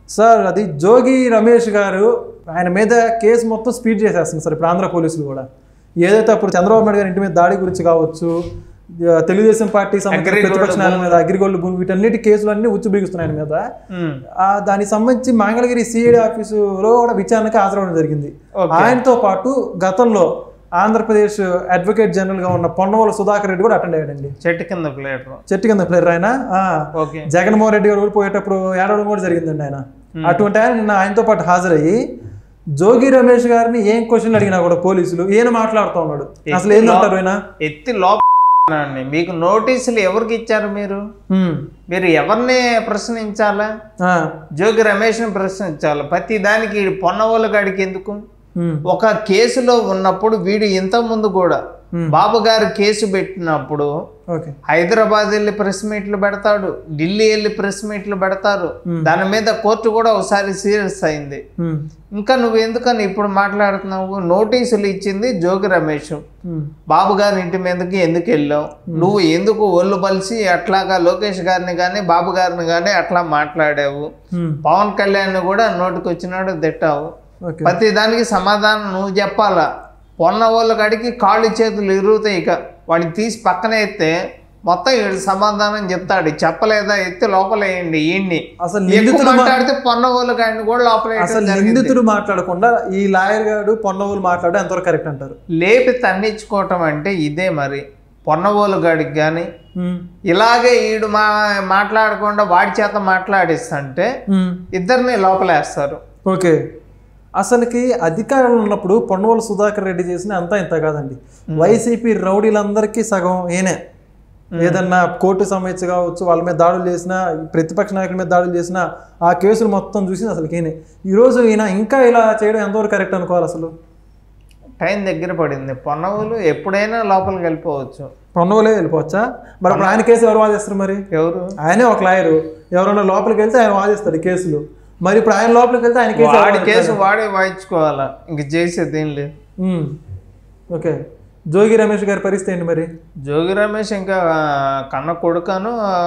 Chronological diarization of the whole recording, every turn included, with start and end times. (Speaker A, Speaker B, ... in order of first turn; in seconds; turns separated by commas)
Speaker A: 0.1-5.4, Speaker A: 6.0-8.3, Speaker A: 9.0-13.6, Speaker B: 10.1-11.2, Speaker B: 13.9-14.2, Speaker A: 14.4-24.3, Speaker B: 18.6-19.0, Speaker B: 24.4-25.4, Speaker A: 25.5-26.8, Speaker B: 27.0-27.3, Speaker A: 27.3-32.0, Speaker B: 30.2-30.4, Speaker A: 32.8-37.4, Speaker B: 36.5-41.0, Speaker A: 41.3-41.6, Speaker B: 41.9-43.7, Speaker B: 44.6-48.2, Speaker A: 48.6-48.8, Speaker B: 48.9-53.9, Speaker B: 54.7-61.4, Speaker B: 62.2-66.2, Speaker B: 66.9-74.1, Speaker A: 74.3-74.6, Speaker B: 74.6-77.1, Speaker A: 77.5-77.8, Speaker B: 77.6-79.6, Speaker B: 80.2-84.1, Speaker B: 84.7-91.9, Speaker A: 88.6-89.6, Speaker A: 91.2-95.4, Speaker B: 95.6-99.5, Speaker A: 99.8-100.0, Speaker B: 100.3-104.1, Speaker A: 104.3-104.6, Speaker B: 104.7-106.0, Speaker A: 106.2-106.6, Speaker A: 107.4-113.8, Speaker B: 114.5-114.8, Speaker A: 114.6-123.7, Speaker B: 124.8-128.1, Speaker A: 128.3-131.0, Speaker B: 129.7-130.0, Speaker B: 131.1-131.5, Speaker A: 131.6-137.0, Speaker B: 136.2-139.3, Speaker A: 139.6-139.9, Speaker A: 141.5-142.9, Speaker B: 143.2-145.7